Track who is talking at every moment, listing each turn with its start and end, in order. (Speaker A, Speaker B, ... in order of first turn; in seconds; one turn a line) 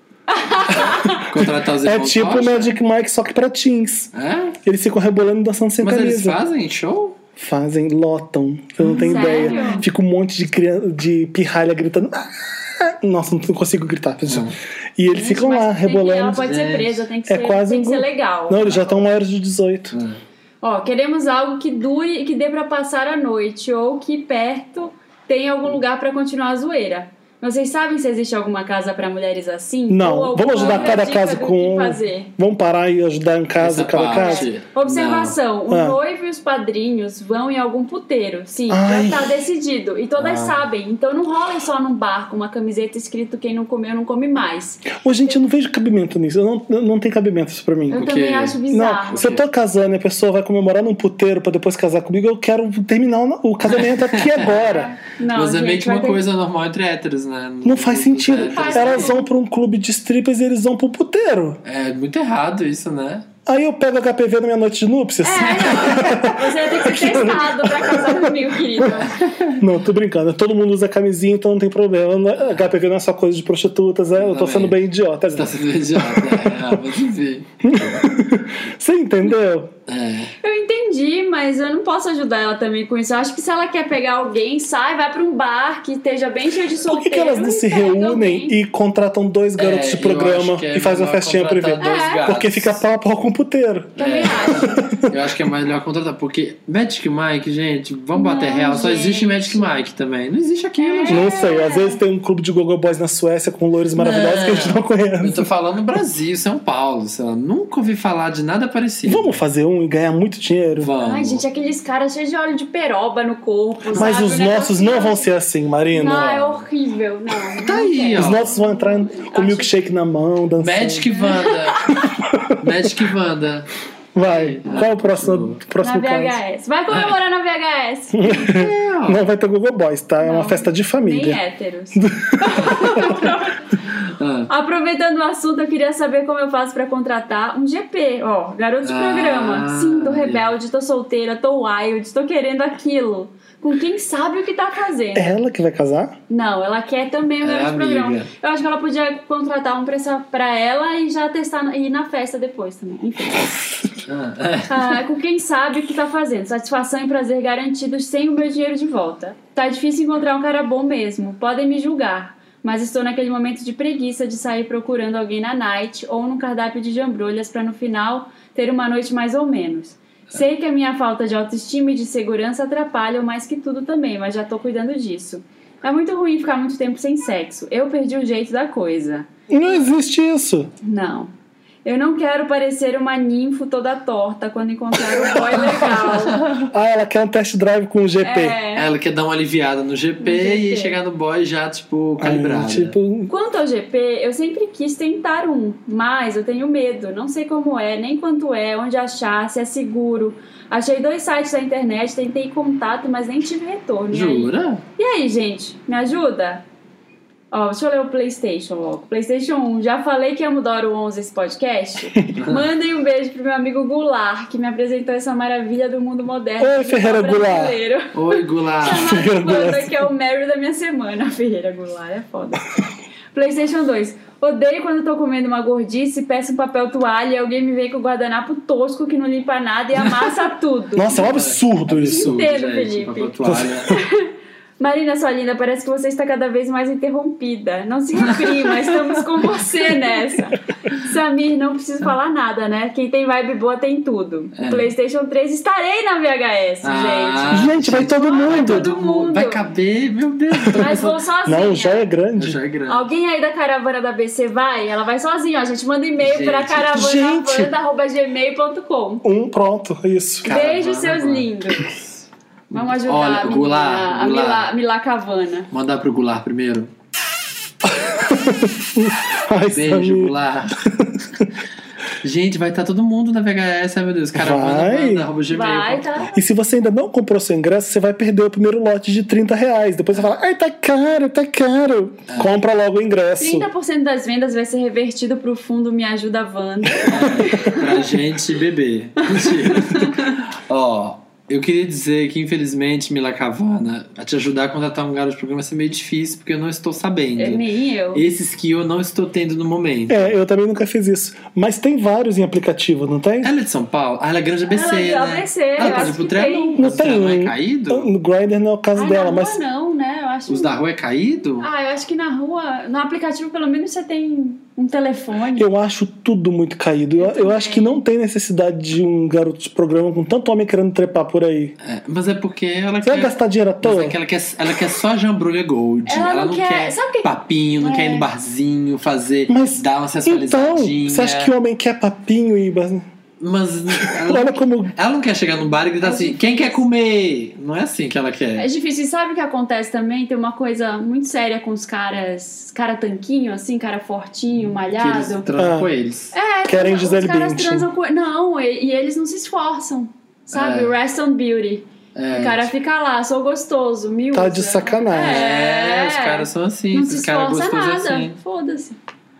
Speaker A: 0.3-1.2
Speaker B: 1.2-2.7
Speaker C: 1.4-4.1
Speaker B: 4.1-4.5
Speaker C: 4.6-6.4
Speaker B: 5.8-7.2
Speaker C: 7.4-16.5
Speaker B: 8.8-9.6
Speaker A: 9.0-9.8
Speaker B: 14.3-14.5
Speaker A: 15.1-18.6
Speaker B: 16.4-17.0
Speaker C: 17.2-19.9
Speaker B: 18.6-19.0
Speaker B: 19.9-20.2
Speaker A: 20.6-32.3
Speaker C: 29.9-34.5
Speaker B: 30.5-31.0
Speaker B: 33.6-35.4
Speaker A: 34.0-45.0
Speaker C: 35.7-36.0
Speaker C: 38.7-39.3
Speaker B: 40.2-40.6
Speaker C: 44.9-48.1
Speaker A: 47.9-49.2
Speaker B: 47.9-48.6
Speaker C: 48.7-54.9
Speaker B: 49.1-49.4
Speaker B: 53.6-54.5
Speaker A: 54.5-56.2
Speaker B: 55.3-59.1
Speaker C: 57.6-61.6
Speaker A: 58.3-59.2
Speaker B: 61.6-63.2
Speaker C: 63.5-69.1
Speaker A: 65.2-69.2
Speaker B: 69.1-69.6
Speaker C: 69.6-76.8
Speaker B: 72.4-72.7
Speaker B: 74.2-74.8
Speaker B: 75.3-77.7
Speaker C: 77.6-79.7
Speaker B: 79.9-80.3
Speaker A: 80.4-88.6
Speaker C: 86.9-95.1
Speaker B: 89.6-92.8
Speaker A: 91.8-92.2
Speaker A: 94.0-94.9
Speaker B: 94.0-101.3
Speaker A: 98.1-99.7
Speaker A: 100.8-102.0
Speaker C: 101.1-105.5
Speaker B: 104.0-109.4
Speaker C: 109.0-110.9
Speaker B: 110.8-111.4
Speaker A: 111.0-115.3
Speaker C: 113.9-116.6
Speaker A: 115.9-119.8
Speaker B: 117.6-118.5
Speaker C: 118.1-121.1
Speaker B: 120.6-121.8
Speaker A: 121.1-122.0
Speaker C: 122.0-122.9
Speaker B: 122.6-123.7
Speaker C: 124.1-126.4
Speaker B: 124.2-125.6
Speaker A: 125.8-128.4
Speaker C: 128.1-131.4
Speaker B: 128.3-129.2
Speaker A: 130.2-133.7
Speaker C: 131.9-133.2
Speaker B: 134.2-134.5
Speaker A: 134.5-145.3
Speaker B: 138.8-140.5
Speaker C: 145.2-146.2
Speaker A: 146.3-153.8
Speaker B: 147.4-148.3
Speaker B: 154.1-155.0
Speaker A: 154.7-179.3
Speaker C: 179.5-180.7
Speaker A: 180.8-181.3
Speaker A: 181.8-186.4
Speaker C: 185.1-185.8
Speaker B: 185.9-186.7
Speaker C: 186.7-188.6
Speaker A: 188.2-188.9
Speaker B: 188.7-192.9
Speaker A: 190.2-190.9
Speaker C: 192.2-193.3
Speaker A: 193.3-206.6
Speaker B: 204.1-204.8
Speaker A: 207.5-222.6
Speaker B: 212.4-212.7
Speaker C: 216.6-217.8
Speaker B: 218.1-219.2
Speaker C: 218.9-220.1
Speaker A: 223.3-231.3
Speaker C: 230.9-232.4
Speaker B: 231.1-233.9
Speaker A: 231.9-249.6
Speaker C: 233.4-234.0
Speaker B: 244.6-244.9
Speaker B: 246.8-251.2
Speaker C: 247.5-248.9
Speaker A: 250.7-252.1
Speaker C: 251.4-252.6
Speaker B: 252.3-253.1
Speaker A: 252.9-259.2
Speaker B: 256.2-257.0
Speaker C: 256.9-257.7
Speaker C: 259.2-260.5
Speaker A: 260.4-262.0
Speaker B: 260.4-261.4
Speaker B: 262.7-264.7
Speaker A: 262.7-265.7
Speaker B: 265.7-266.9
Speaker C: 267.8-271.4
Speaker B: 269.7-270.8
Speaker B: 272.2-276.3
Speaker C: 274.3-275.3
Speaker A: 275.5-276.4
Speaker C: 276.4-283.7
Speaker A: 283.4-288.0
Speaker C: 287.0-287.4
Speaker B: 287.1-300.3
Speaker A: 289.4-290.4
Speaker A: 297.4-298.2
Speaker C: 300.1-303.5
Speaker B: 303.4-308.1
Speaker A: 304.7-306.8
Speaker C: 305.8-306.1
Speaker C: 306.8-309.6
Speaker A: 308.9-310.7
Speaker B: 310.5-311.7
Speaker A: 311.6-315.7
Speaker C: 315.6-321.7
Speaker A: 317.2-318.0
Speaker B: 321.8-331.5
Speaker C: 323.0-324.2
Speaker A: 326.1-327.3
Speaker A: 327.8-328.2
Speaker C: 329.5-333.1
Speaker B: 333.4-338.7
Speaker C: 333.9-334.9
Speaker A: 336.0-336.8
Speaker A: 338.6-345.5
Speaker B: 344.7-346.3
Speaker C: 345.6-345.9
Speaker A: 346.3-359.0
Speaker C: 346.6-347.9
Speaker B: 350.5-350.9
Speaker B: 352.1-352.7
Speaker C: 354.3-355.4
Speaker B: 355.1-358.4